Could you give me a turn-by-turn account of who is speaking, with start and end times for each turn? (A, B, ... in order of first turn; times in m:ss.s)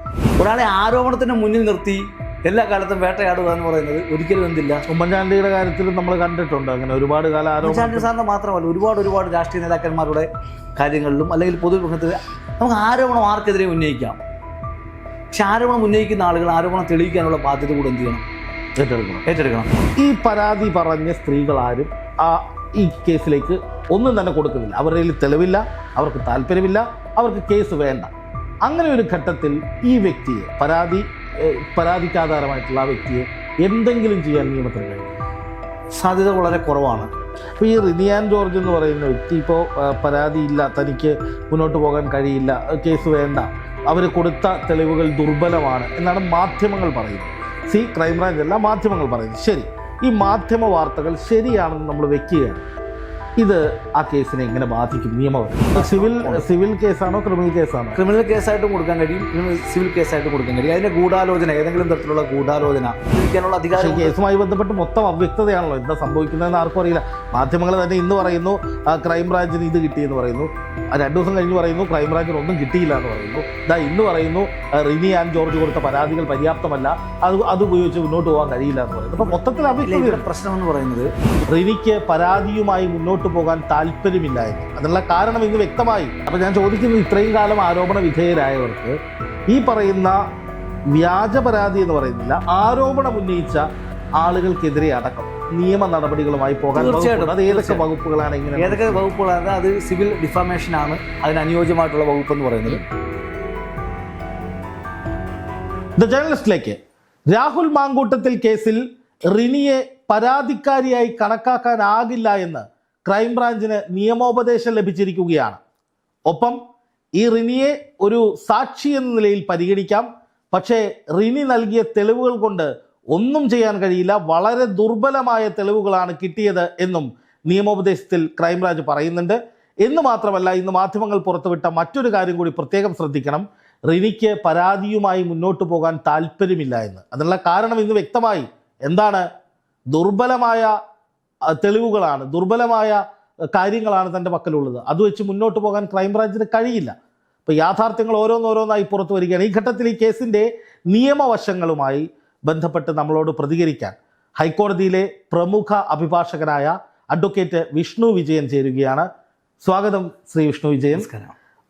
0:00.4-0:04.8 A
0:04.9-0:08.1 B
0:07.6-0:14.2 A
0:15.3-0:18.2 A
0:18.8-0:19.2 B
0:19.2-0:19.7 A
0:20.0-0:28.1 B
0:28.6-0:35.1 B
0:36.0-0:37.1 A
0:37.6-0:52.7 B
0:53.4-0:58.0 B
0:55.7-0:56.5 A
0:58.0-1:04.1 A
1:03.7-1:20.2 B
1:19.8-1:21.1 A
1:21.5-1:28.9 B
1:29.5-1:30.2 B
1:30.9-1:33.6 B
1:34.2-1:39.0 B
1:36.7-1:37.8 A
1:38.6-1:42.8 A
1:46.0-1:46.8 B
1:47.3-1:55.6 B
1:56.3-1:56.6 B
1:57.2-2:19.2 B
2:19.9-2:20.7 B
2:21.5-2:23.0 B
2:23.5-2:26.9 B
2:27.5-2:39.1 B
2:39.6-2:41.1 B
2:41.0-2:41.3 A